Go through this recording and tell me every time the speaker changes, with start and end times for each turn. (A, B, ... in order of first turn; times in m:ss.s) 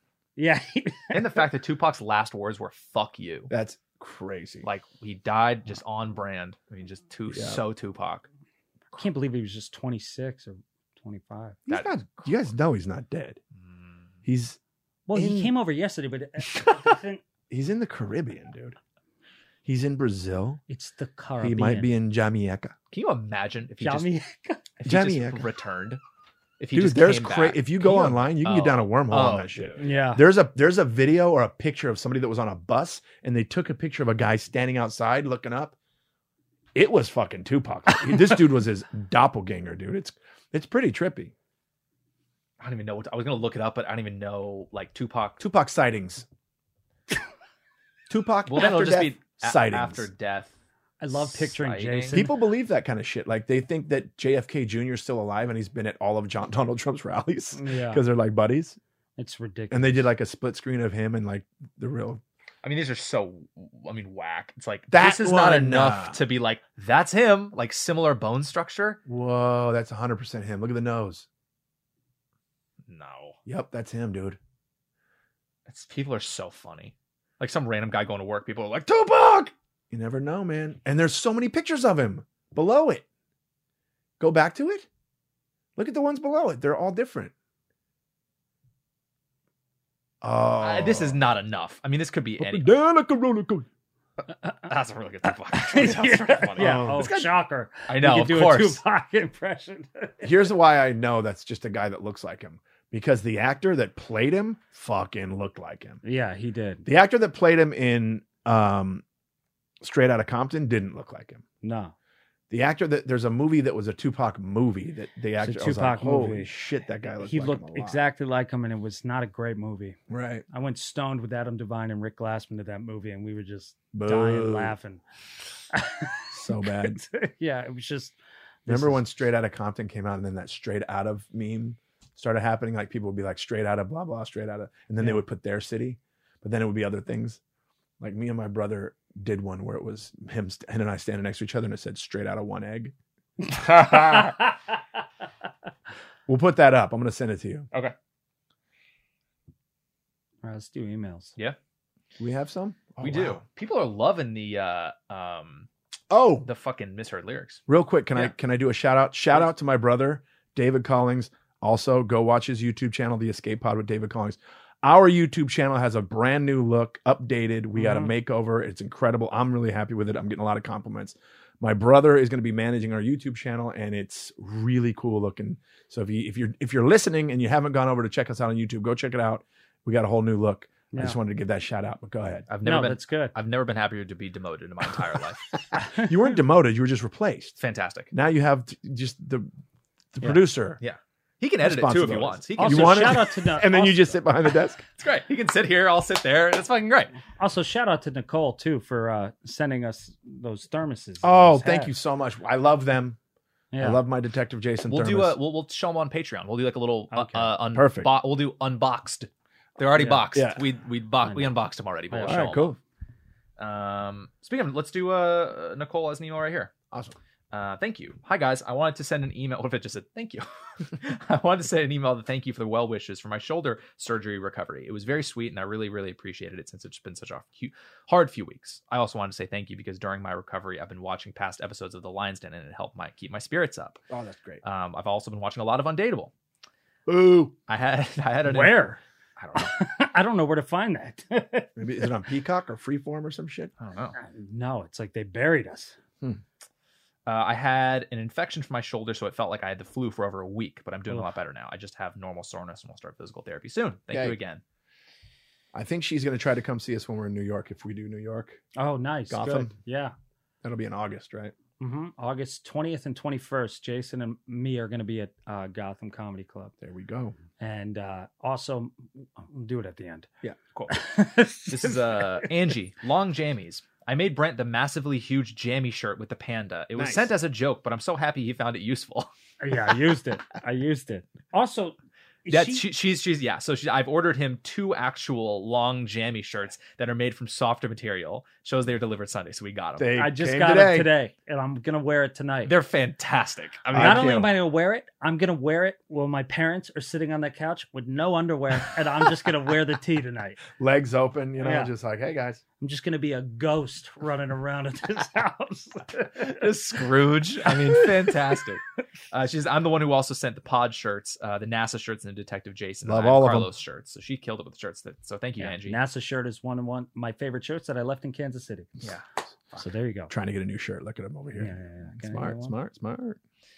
0:00.4-0:01.4 A
0:01.1-0:03.5 B
0:03.5-0:04.7 C
0:04.6-0:08.3 B
0:07.3-0:07.6 C
0:08.9-0:11.6 A
0:11.7-0:12.5 B
0:11.7-0:13.4 C
0:13.5-0:14.1 B
0:14.2-0:14.6 C
0:15.1-0:17.2 A
0:15.2-0:15.5 C
0:17.5-0:18.8 C
0:19.6-0:20.6 C
0:20.7-0:21.9 A
0:21.4-0:22.8 C
0:22.9-0:24.1 B
0:23.8-0:24.7 A
0:24.8-0:26.0 B
0:24.8-0:25.5 C
0:26.6-0:29.8 B
0:26.7-0:35.8 C
0:29.8-0:30.2 A
0:36.8-0:41.3 C
0:42.6-0:45.4 B
0:45.4-0:46.2 C
0:48.1-0:50.1 C
0:48.5-0:50.5 B
0:51.0-0:52.3 A
0:51.1-0:52.2 B
0:52.1-0:58.8 C
0:57.5-0:58.0 A
0:59.2-1:00.1 A
0:59.7-1:02.2 C
1:02.6-1:09.0 B
1:04.9-1:06.2 C
1:09.1-1:11.3 C
1:12.9-1:13.4 B
1:13.5-1:14.4 C
1:15.7-1:19.5 B
1:19.9-1:23.0 C
1:24.2-1:24.9 C
1:25.8-1:27.3 C
1:30.2-1:31.2 C
1:30.6-1:32.7 B
1:32.4-1:33.7 C
1:34.5-1:37.3 B
1:35.5-1:40.3 A
1:36.6-1:37.3 C
1:37.9-1:38.8 B
1:40.2-1:46.0 C
1:46.0-1:46.9 A
1:46.9-1:49.0 C
1:49.8-1:51.4 C
1:51.6-1:51.9 A
1:52.5-1:58.0 C
1:55.4-1:56.5 A
1:57.2-2:00.0 A
2:00.1-2:00.4 C
2:00.5-2:05.0 A
2:03.9-2:04.8 C
2:05.7-2:09.1 A
2:06.3-2:07.0 C
2:08.7-2:17.4 C
2:18.0-2:22.9 C
2:23.8-2:24.5 A
2:23.9-2:24.2 B
2:26.3-2:27.7 C
2:30.4-2:31.4 A
2:32.2-2:33.4 C
2:33.0-2:35.7 B
2:36.1-2:36.5 C
2:36.4-2:37.6 B
2:37.7-3:02.5 C
2:47.8-2:48.1 A
3:00.9-3:01.2 A
3:02.5-3:05.6 B
3:02.6-3:03.3 A
3:05.8-3:06.1 A
3:05.9-3:07.6 C
3:07.6-3:08.1 B
3:08.1-3:09.5 C
3:10.1-3:10.8 C
3:10.8-3:13.3 B
3:11.6-3:14.8 C
3:12.6-3:14.2 A
3:15.0-3:17.1 B
3:17.4-3:21.9 A
3:21.2-3:23.2 C
3:23.7-3:24.0 A
3:23.8-3:25.4 C
3:24.9-3:32.8 B
3:27.1-3:27.5 A
3:27.7-3:28.1 C
3:30.0-3:30.3 A
3:30.3-3:30.6 C
3:31.2-3:31.6 A
3:32.1-3:32.6 A
3:32.2-3:32.8 C
3:33.6-3:36.7 B
3:36.9-3:37.2 C
3:37.5-3:54.0 B
3:54.1-3:54.6 C
3:54.6-3:56.3 B
3:57.1-3:57.5 C
3:57.7-3:59.7 B
3:58.4-3:59.0 A
3:59.6-4:01.8 A
4:01.8-4:03.7 C
4:03.8-4:04.2 B
4:04.2-4:06.0 A
4:07.3-4:14.6 B
4:14.1-4:14.4 C
4:15.7-4:18.6 C
4:18.8-4:20.1 A
4:19.3-4:19.7 C
4:20.6-4:21.5 C
4:21.8-4:26.7 A
4:26.8-4:27.4 C
4:27.6-4:30.3 A
4:30.9-4:32.5 A
4:31.7-4:39.3 B
4:37.0-4:37.3 C
4:39.6-4:42.9 A
4:42.5-4:50.1 B
4:50.0-4:51.1 C
4:50.2-4:52.7 A
4:52.6-4:54.3 B
4:53.9-4:54.5 C
4:53.9-5:00.6 A
5:00.7-5:02.6 C
5:01.6-5:01.9 A
5:02.8-5:06.7 A
5:06.4-5:16.0 B
5:07.7-5:08.4 A
5:13.0-5:13.7 C
5:15.6-5:19.0 A
5:19.0-5:19.8 B
5:19.8-5:20.3 A
5:20.3-5:23.4 C
5:21.5-5:22.8 A